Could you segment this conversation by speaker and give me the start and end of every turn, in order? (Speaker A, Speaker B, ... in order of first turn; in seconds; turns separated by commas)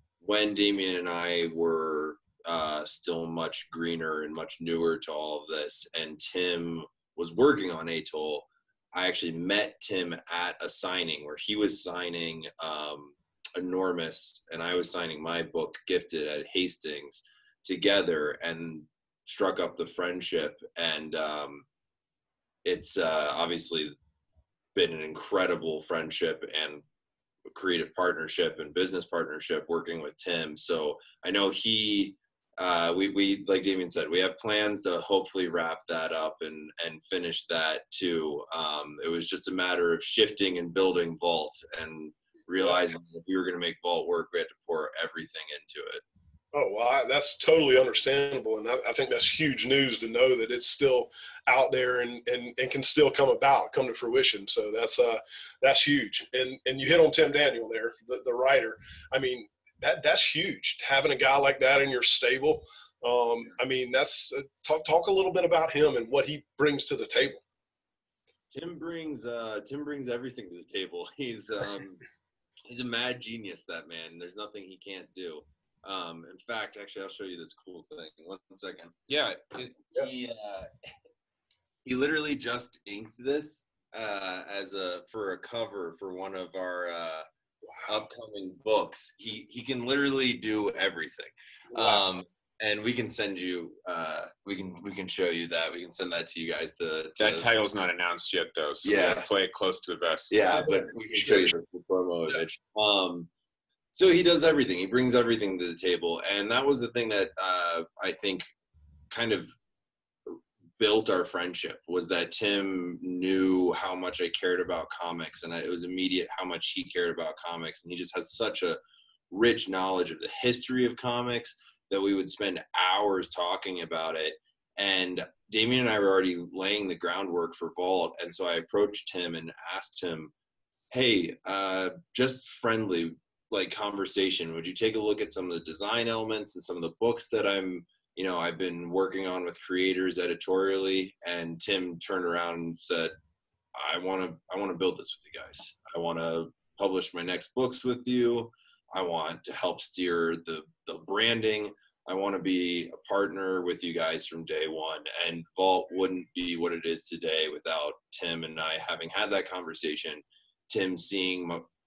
Speaker A: 0.2-21.6, Speaker A: 22.6-23.9, Speaker A: 24.7-26.8, Speaker A: 27.5-46.0, Speaker B: 46.5-67.4, Speaker A: 68.5-72.0, Speaker A: 72.7-79.0, Speaker C: 79.1-79.8, Speaker A: 79.9-80.7, Speaker A: 81.8-87.2, Speaker A: 87.8-97.5, Speaker B: 91.7-92.0, Speaker C: 97.2-100.4, Speaker A: 98.8-99.3, Speaker A: 100.3-103.3, Speaker B: 101.2-101.4, Speaker A: 103.9-108.5, Speaker A: 109.1-109.5, Speaker A: 110.3-118.8, Speaker A: 119.3-130.3, Speaker A: 130.9-143.1, Speaker A: 143.8-161.6